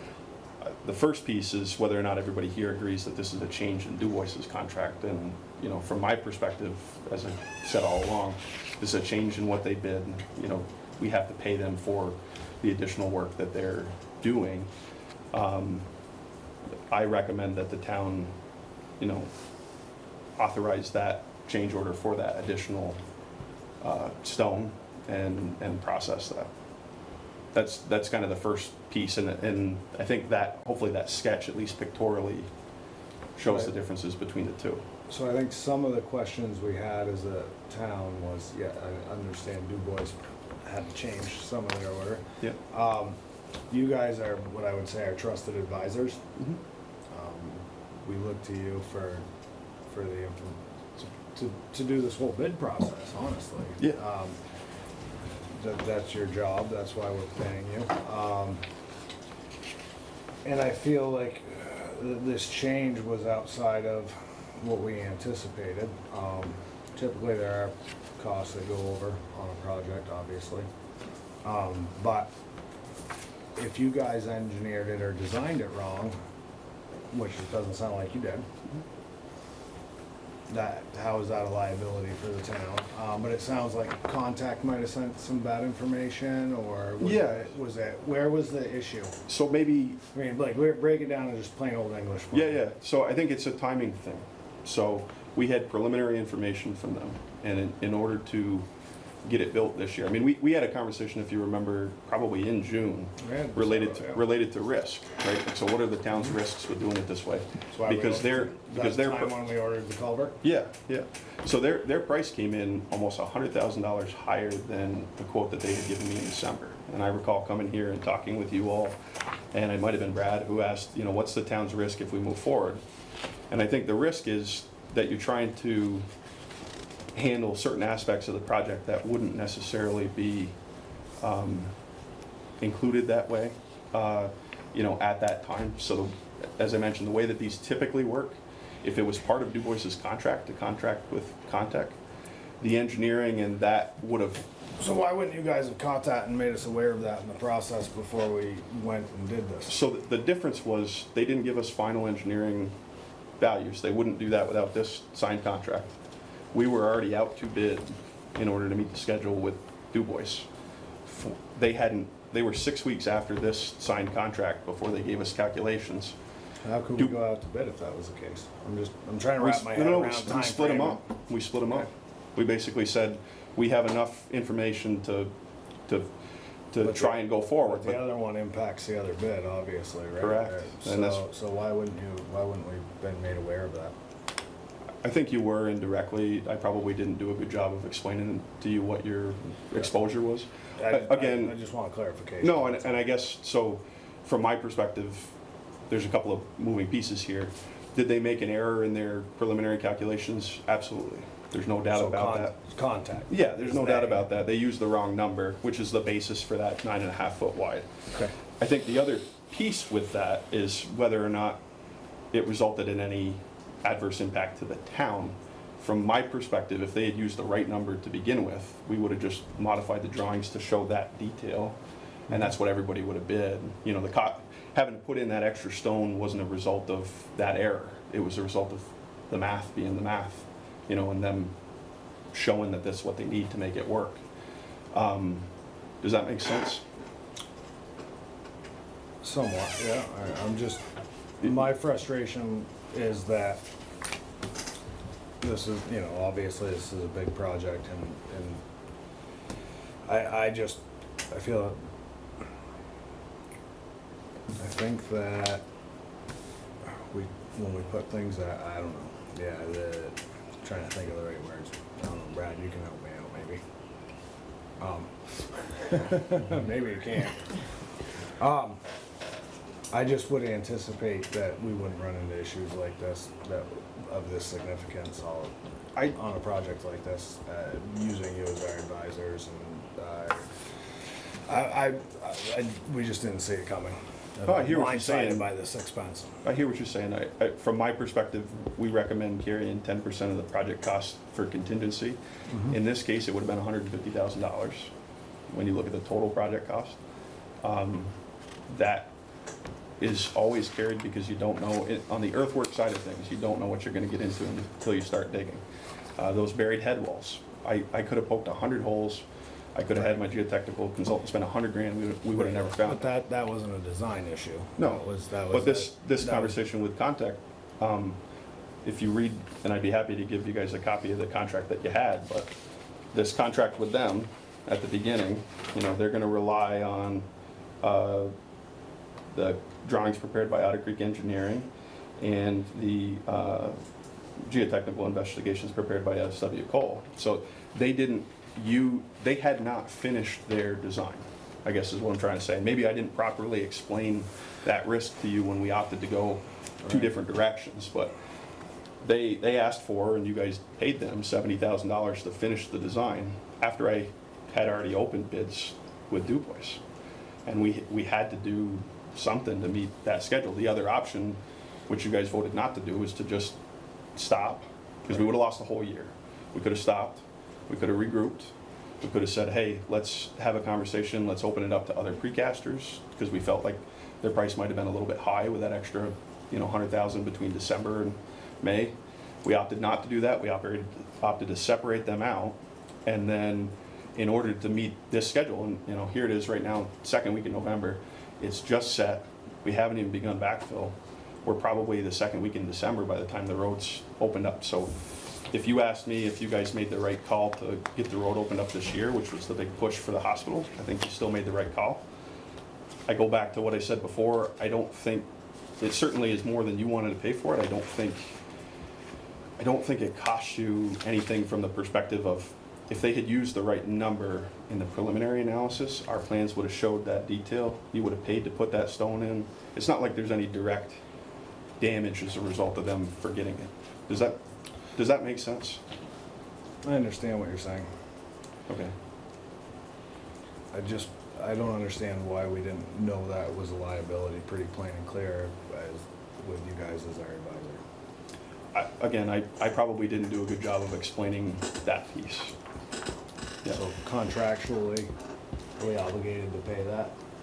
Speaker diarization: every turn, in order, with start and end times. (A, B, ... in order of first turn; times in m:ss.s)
0:00.6-0:14.7 A
0:15.3-0:15.8 A
0:16.9-0:18.3 A
0:19.0-0:19.3 A
0:20.4-0:23.0 A
0:23.8-0:26.5 A
0:27.5-0:32.5 A
0:33.4-0:34.8 A
0:35.1-0:43.2 B
0:43.7-0:46.2 B
0:47.1-0:49.2 B
0:49.9-0:54.4 B
0:55.5-0:58.6 B
1:00.4-1:10.7 B
1:11.4-1:12.3 B
1:13.5-1:16.2 B
1:17.1-1:18.5 B
1:20.5-1:29.2 B
1:27.0-1:27.5 A
1:29.3-1:30.0 A
1:30.1-1:32.6 B
1:32.3-1:38.7 A
1:39.2-1:49.3 A
1:43.2-1:44.2 B
1:47.7-1:50.4 B
1:50.4-1:59.0 A
1:59.5-2:02.8 A
2:03.5-2:06.0 A
2:07.1-2:10.5 A
2:11.2-2:11.7 A
2:12.6-2:22.0 A
2:22.6-2:24.5 A
2:24.8-2:29.7 B
2:29.7-2:32.7 A
2:33.4-2:35.9 A
2:36.5-2:40.5 A
2:41.0-2:46.1 A
2:46.6-2:51.0 B
2:49.4-2:55.3 A
2:56.7-2:58.0 A
2:56.8-3:03.9 B
3:00.2-3:01.2 A
3:05.0-3:11.5 A
3:10.8-3:13.0 B
3:12.4-3:15.3 A
3:15.9-3:22.5 A
3:21.9-3:24.3 B
3:23.3-3:27.9 A
3:28.6-3:31.6 A
3:32.3-3:41.8 A
3:42.3-3:51.5 A
3:52.3-3:54.2 A
3:54.9-3:55.5 A
3:56.0-3:56.8 A
3:59.2-4:00.8 B
4:01.4-4:03.6 B
4:05.4-4:08.6 B
4:10.0-4:11.9 B
4:14.5-4:15.6 B
4:16.8-4:23.6 B
4:24.8-4:25.1 B
4:25.7-4:27.4 B
4:28.4-4:28.8 B
4:29.9-4:40.5 B
4:41.5-4:46.4 B
4:44.4-4:45.5 A
4:46.4-4:52.2 A
4:52.5-4:52.8 B
4:52.7-4:54.9 A
4:55.5-4:57.0 A
4:57.6-4:58.1 A
4:58.7-4:59.1 A
5:00.0-5:05.6 A
5:06.2-5:13.0 A
5:09.9-5:10.2 B
5:12.3-5:16.6 B
5:14.8-5:18.2 A
5:18.8-5:22.5 A
5:23.1-5:27.3 A
5:27.8-5:28.3 A
5:29.3-5:33.8 A
5:34.4-5:48.1 A
5:46.8-5:47.1 B
5:49.0-5:56.8 A
5:57.4-6:03.6 A
6:04.1-6:34.9 A
6:35.5-6:42.0 A
6:43.1-6:45.2 A
6:45.8-6:48.3 A
6:49.6-7:01.0 A
7:01.8-7:04.4 A
7:05.0-7:05.8 A
7:06.8-7:07.9 B
7:08.7-7:08.9 A
7:10.7-7:17.8 B
7:18.7-7:22.5 A
7:23.7-7:25.1 B
7:25.8-7:27.1 B